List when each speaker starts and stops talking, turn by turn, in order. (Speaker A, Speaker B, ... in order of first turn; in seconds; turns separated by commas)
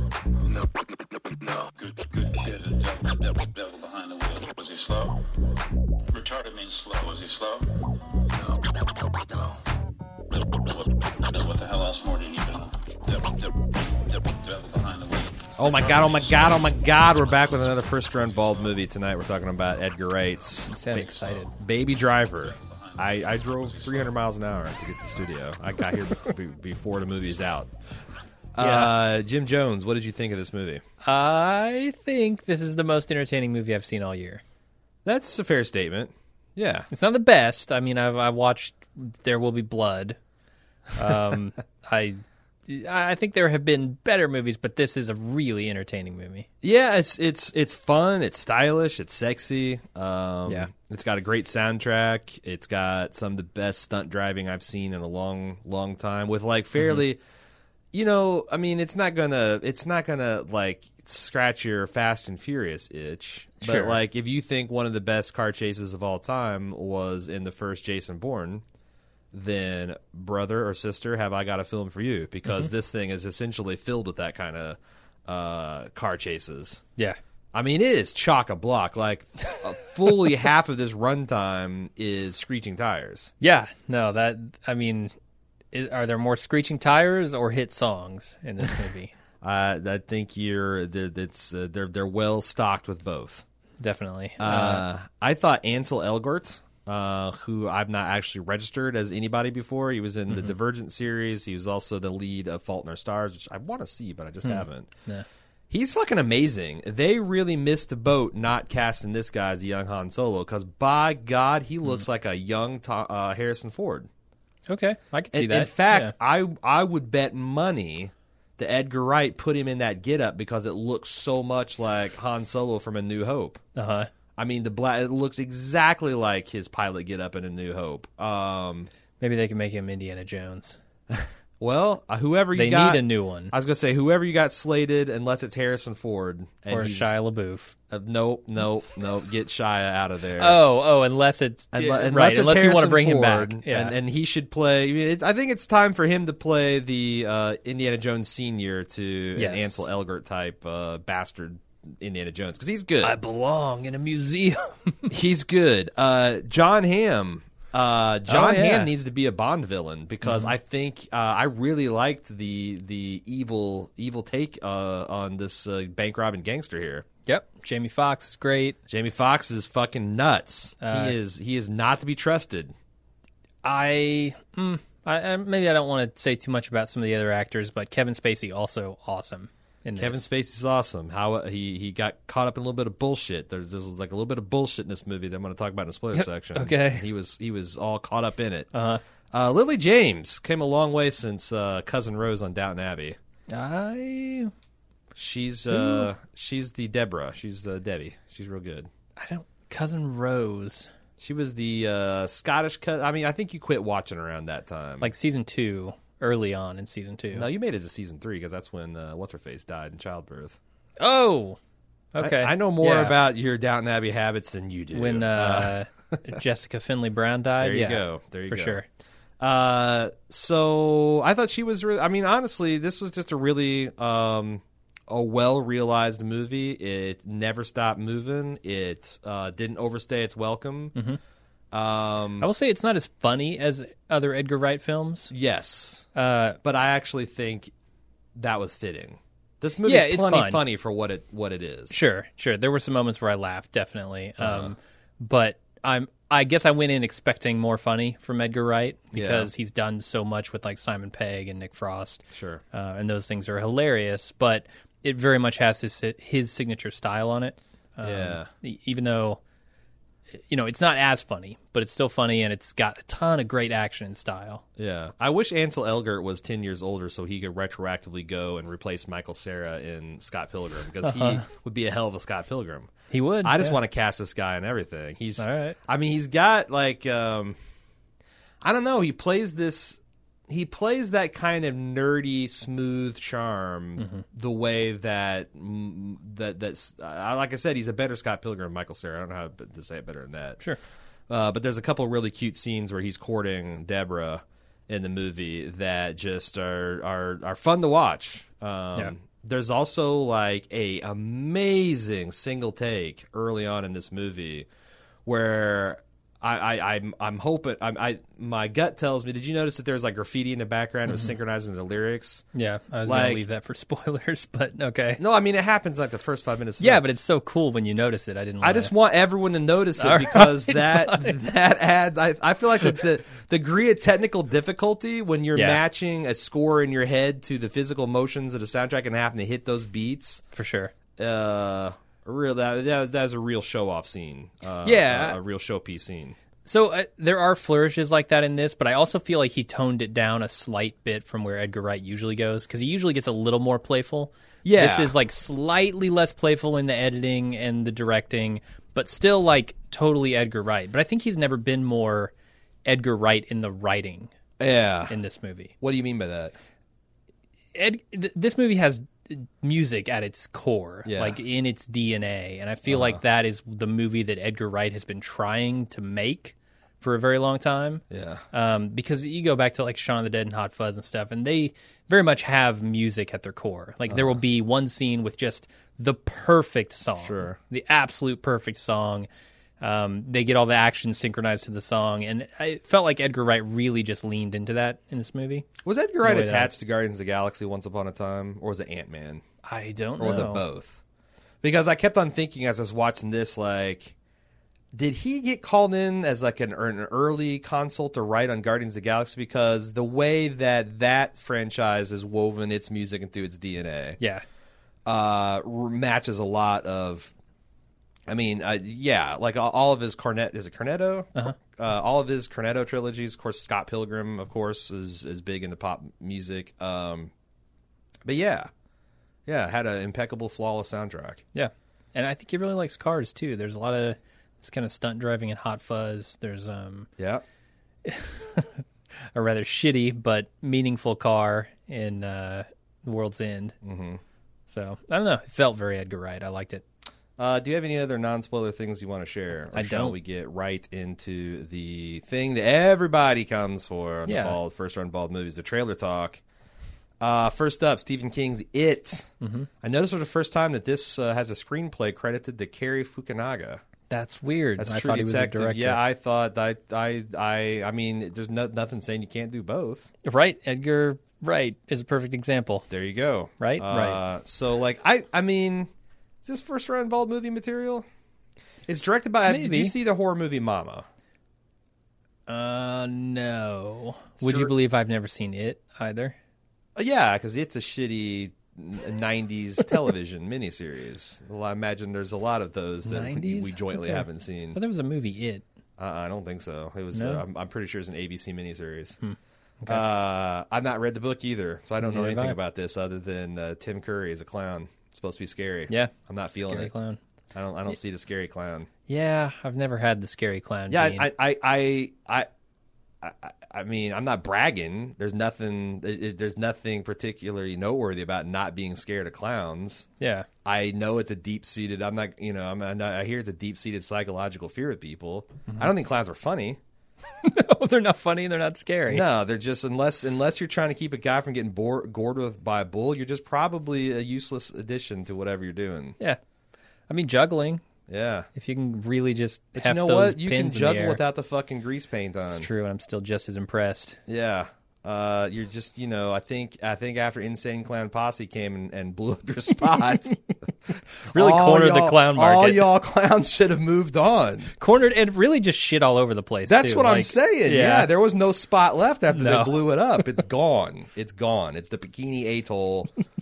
Speaker A: 1.8-5.3, Speaker A: 6.1-7.8, Speaker A: 10.6-13.5, Speaker A: 14.1-16.7, Speaker B: 15.6-27.7, Speaker C: 20.7-21.5, Speaker A: 22.6-23.6, Speaker B: 28.6-30.8, Speaker C: 28.6-28.9, Speaker C: 31.0-34.4, Speaker B: 35.0-36.9, Speaker C: 36.9-40.2, Speaker C: 40.9-46.5, Speaker B: 46.6-57.2, Speaker B: 57.9-68.6, Speaker C: 63.6-64.0, Speaker B: 69.3-76.8, Speaker B: 77.5-83.3, Speaker C: 83.4-85.1, Speaker C: 85.7-89.1, Speaker B: 89.4-93.4, Speaker C: 93.8-94.8, Speaker B: 94.4-104.9, Speaker C: 100.3-100.6, Speaker C: 104.4-105.2, Speaker B: 105.7-114.1, Speaker C: 114.7-116.1, Speaker B: 115.3-123.6, Speaker C: 123.8-124.1, Speaker B: 124.4-128.9, Speaker C: 129.2-130.8, Speaker B: 131.2-137.2, Speaker C: 132.6-133.5, Speaker C: 136.7-137.8, Speaker B: 137.9-140.6, Speaker C: 140.4-144.0, Speaker B: 141.7-153.2, Speaker C: 149.3-149.9, Speaker C: 153.0-155.1, Speaker B: 155.1-167.1, Speaker C: 158.3-158.9, Speaker C: 160.2-160.6, Speaker C: 167.3-168.8, Speaker B: 168.9-172.7, Speaker C: 170.8-171.2, Speaker C: 173.6-180.3, Speaker B: 180.0-188.7, Speaker C: 186.2-187.1, Speaker C: 188.7-189.0, Speaker B: 189.3-193.2, Speaker C: 193.5-194.5, Speaker B: 195.2-198.9, Speaker C: 195.7-196.1, Speaker C: 199.2-200.9, Speaker B: 201.2-205.1, Speaker C: 205.0-207.5, Speaker B: 207.3-210.6, Speaker C: 211.0-211.6, Speaker C: 212.1-213.2, Speaker B: 212.2-216.2, Speaker C: 214.9-218.9, Speaker B: 217.6-218.8, Speaker B: 219.4-230.9, Speaker B: 231.7-232.5, Speaker C: 232.4-235.3, Speaker B: 235.3-236.1, Speaker C: 236.1-236.6, Speaker B: 236.6-237.7, Speaker B: 238.4-241.9, Speaker C: 239.8-240.6, Speaker C: 241.9-259.4, Speaker B: 244.4-244.7, Speaker B: 249.1-249.5, Speaker B: 252.3-252.6, Speaker B: 258.0-258.5, Speaker C: 260.5-264.6, Speaker B: 264.8-272.9, Speaker C: 271.0-271.4, Speaker C: 273.1-273.8, Speaker B: 273.4-277.6, Speaker C: 275.4-275.8, Speaker B: 278.6-290.6, Speaker C: 284.0-284.2, Speaker B: 291.3-304.7, Speaker B: 305.3-312.4, Speaker C: 311.1-311.4, Speaker C: 312.5-315.2, Speaker B: 313.1-313.4, Speaker B: 315.2-317.0, Speaker C: 316.8-318.9, Speaker B: 318.6-330.4, Speaker C: 320.0-321.4, Speaker C: 325.6-325.8, Speaker C: 330.5-330.9, Speaker B: 331.2-336.4, Speaker C: 334.8-335.4, Speaker C: 336.6-352.3, Speaker B: 344.6-345.1, Speaker C: 352.9-354.3, Speaker B: 354.6-355.2, Speaker C: 355.1-355.7, Speaker B: 355.8-356.6, Speaker C: 357.8-379.3, Speaker B: 361.1-361.4, Speaker B: 362.9-363.2, Speaker B: 368.1-368.4, Speaker B: 374.1-374.4, Speaker B: 377.2-377.6, Speaker C: 379.8-385.7, Speaker B: 385.9-389.4, Speaker C: 386.2-386.7, Speaker C: 389.6-390.6, Speaker B: 390.2-391.0, Speaker B: 391.6-394.1, Speaker B: 394.9-404.2, Speaker C: 404.2-404.4, Speaker B: 405.1-407.3, Speaker B: 408.3-417.3, Speaker B: 418.3-418.7, Speaker B: 419.5-421.4, Speaker C: 421.6-427.1, Speaker B: 427.2-427.4, Speaker C: 428.1-433.8, Speaker B: 433.8-434.2, Speaker C: 434.7-436.8, Speaker B: 437.4-446.4, Speaker C: 439.7-440.2, Speaker C: 444.3-444.6, Speaker B: 447.2-449.3, Speaker C: 449.4-449.7, Speaker B: 449.8-453.8, Speaker C: 454.1-456.0, Speaker B: 454.8-460.1, Speaker C: 460.2-462.9, Speaker B: 462.9-465.9, Speaker C: 463.6-464.2, Speaker B: 466.4-468.1, Speaker B: 468.9-471.1, Speaker C: 469.5-469.9, Speaker C: 472.5-476.4, Speaker B: 474.4-474.7, Speaker B: 477.0-484.8, Speaker C: 483.1-485.6, Speaker B: 486.0-489.2, Speaker C: 487.1-487.4, Speaker C: 489.2-490.0, Speaker B: 489.9-496.9, Speaker C: 492.0-492.6, Speaker C: 495.9-497.2, Speaker B: 497.5-498.9, Speaker C: 499.1-501.3, Speaker B: 500.9-502.5, Speaker B: 503.2-510.1, Speaker C: 510.2-510.5, Speaker B: 510.6-516.8, Speaker C: 517.4-519.2, Speaker B: 519.1-526.2, Speaker C: 527.1-527.8, Speaker B: 528.1-528.5, Speaker C: 528.5-531.2, Speaker B: 529.8-532.7, Speaker C: 532.5-534.2, Speaker B: 534.3-540.4, Speaker C: 540.9-542.9, Speaker B: 541.3-544.7, Speaker C: 544.8-548.1, Speaker B: 546.7-553.1, Speaker C: 549.3-550.2